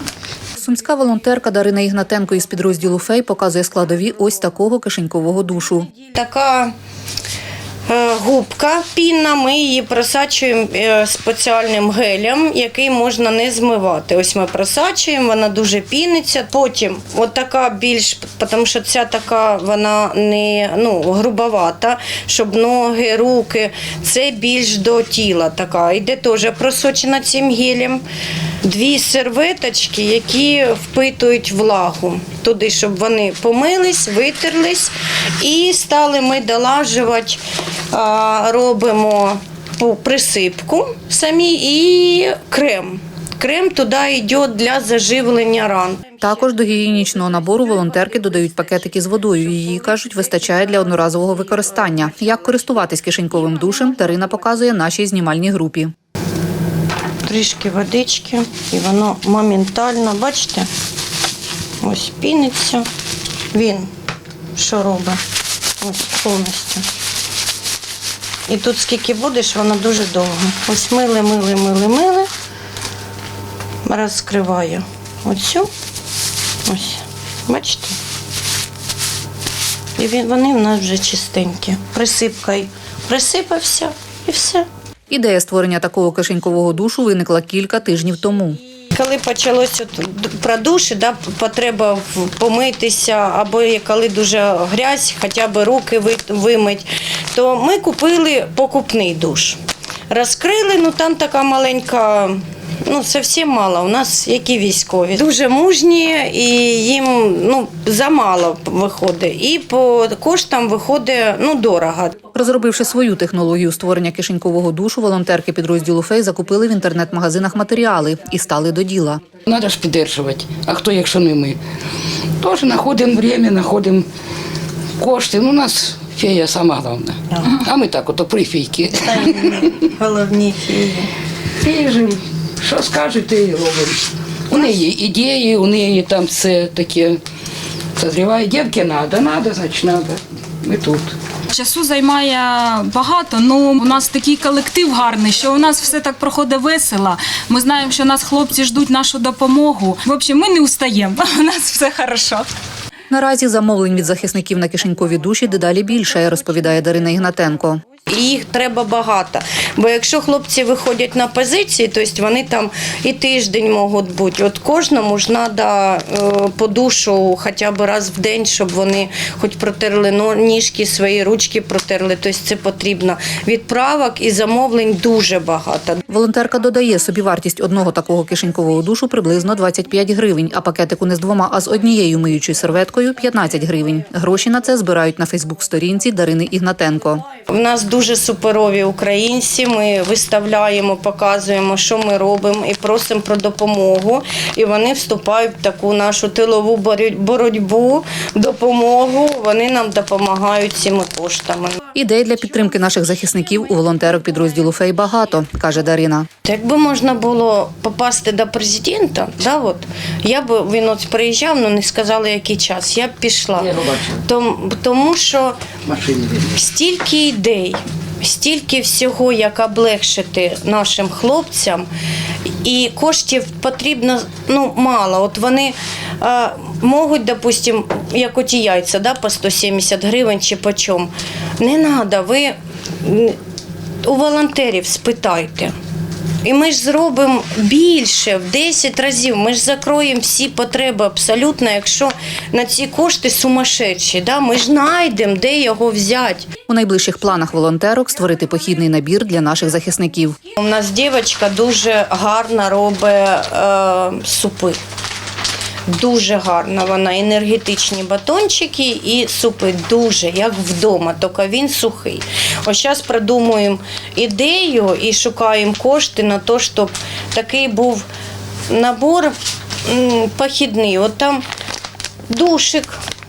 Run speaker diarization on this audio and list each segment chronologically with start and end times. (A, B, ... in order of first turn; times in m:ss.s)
0:00.6-0:05.9 A
0:05.9-0:06.7 B
0:07.8-0:28.0 B
0:28.6-0:46.1 B
0:46.2-0:55.9 A
0:57.2-1:00.7 B
1:01.8-1:02.9 B
1:03.5-1:03.9 B
1:04.5-1:05.2 B
1:05.8-1:06.9 B
1:08.5-1:12.3 B
1:13.8-1:15.7 B
1:16.6-1:18.0 B
1:20.0-1:24.6 B
1:25.1-1:28.6 A
1:28.9-1:52.2 B
1:52.3-1:59.2 A
1:59.4-2:01.6 C
2:02.4-2:04.1 C
2:05.0-2:09.8 C
2:07.3-2:07.6 B
2:09.0-2:11.1 B
2:11.6-2:17.2 C
2:18.0-2:21.2 C
2:21.5-2:32.5 D
2:33.1-2:37.8 A
2:38.1-2:56.0 B
2:56.1-3:07.2 A
3:07.5-3:21.8 B
3:21.9-3:26.3 A
3:26.4-3:35.6 B
3:33.6-3:34.2 C
3:35.8-3:36.5 C
3:36.5-3:41.9 B
3:42.6-3:53.4 B
3:54.0-3:55.7 B
3:56.4-4:06.5 B
4:06.7-4:10.4 A
4:10.5-4:14.8 B
4:15.9-4:28.1 B
4:28.7-4:31.4 B
4:32.3-4:33.0 B